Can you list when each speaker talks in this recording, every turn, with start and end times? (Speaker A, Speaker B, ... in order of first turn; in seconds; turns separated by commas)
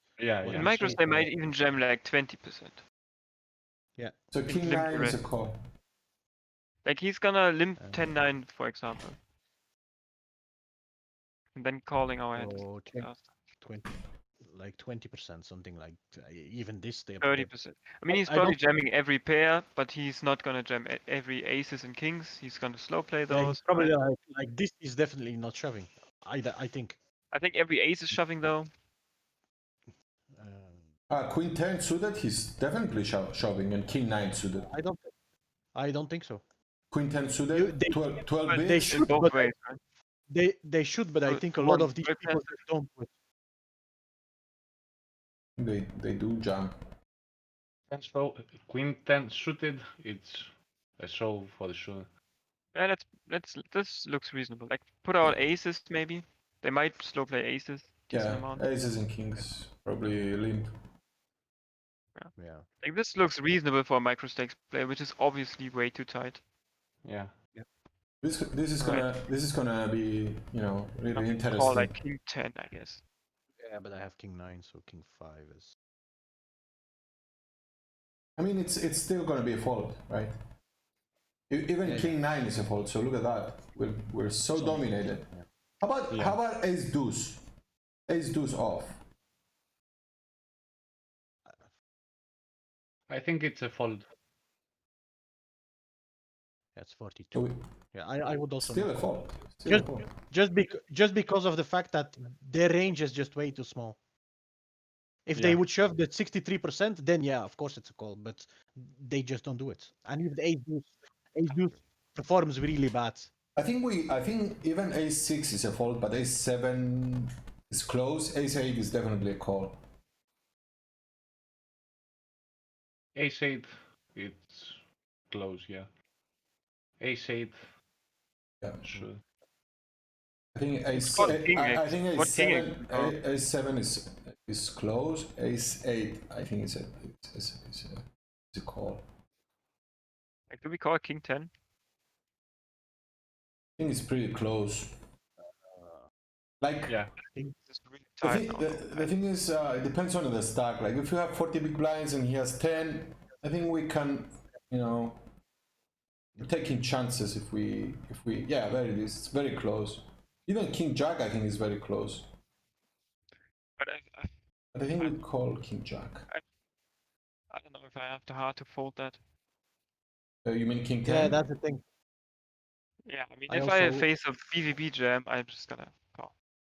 Speaker A: 0.2-1.1, Speaker B: 0.3-1.3, Speaker C: 0.5-2.8, Speaker B: 4.0-4.3, Speaker D: 4.3-5.6, Speaker C: 4.5-5.2, Speaker C: 6.8-9.2, Speaker B: 7.8-8.2, Speaker C: 11.5-13.3, Speaker B: 12.3-17.5, Speaker C: 17.2-23.9, Speaker B: 18.1-18.6, Speaker B: 23.3-27.0, Speaker C: 27.3-28.7, Speaker B: 29.9-30.9, Speaker D: 31.1-34.7, Speaker B: 34.6-35.1, Speaker B: 35.7-36.4, Speaker D: 36.9-39.1, Speaker B: 37.5-39.5, Speaker C: 38.4-39.8, Speaker B: 40.3-43.1, Speaker C: 41.2-42.5, Speaker D: 45.6-46.8, Speaker A: 47.9-52.1, Speaker C: 52.7-58.9, Speaker D: 58.1-60.7, Speaker C: 62.1-66.4, Speaker B: 62.4-62.7, Speaker A: 67.0-67.3, Speaker D: 68.2-71.9, Speaker C: 68.8-69.1, Speaker C: 71.1-73.0, Speaker B: 73.6-75.7, Speaker D: 78.4-80.3, Speaker D: 81.5-87.4, Speaker B: 81.8-82.3, Speaker B: 84.5-85.4, Speaker A: 86.1-86.4, Speaker D: 88.1-89.0, Speaker A: 93.1-94.1, Speaker B: 96.7-99.1, Speaker D: 97.3-97.6, Speaker D: 98.6-100.1, Speaker B: 99.6-104.0, Speaker B: 105.3-113.3, Speaker A: 105.3-105.6, Speaker D: 113.5-119.8, Speaker A: 123.1-125.9, Speaker A: 127.0-127.7, Speaker A: 128.8-129.2, Speaker D: 130.5-139.0, Speaker C: 130.9-133.2, Speaker C: 140.5-141.5, Speaker D: 143.8-144.9, Speaker B: 145.4-146.1, Speaker D: 146.6-146.9, Speaker A: 146.9-147.1, Speaker C: 147.5-149.1, Speaker D: 148.2-155.2, Speaker D: 156.4-162.3, Speaker C: 163.8-164.3, Speaker D: 164.7-166.3, Speaker C: 167.5-169.2, Speaker D: 170.4-171.4, Speaker B: 171.0-171.8, Speaker C: 173.0-176.3, Speaker B: 173.5-174.1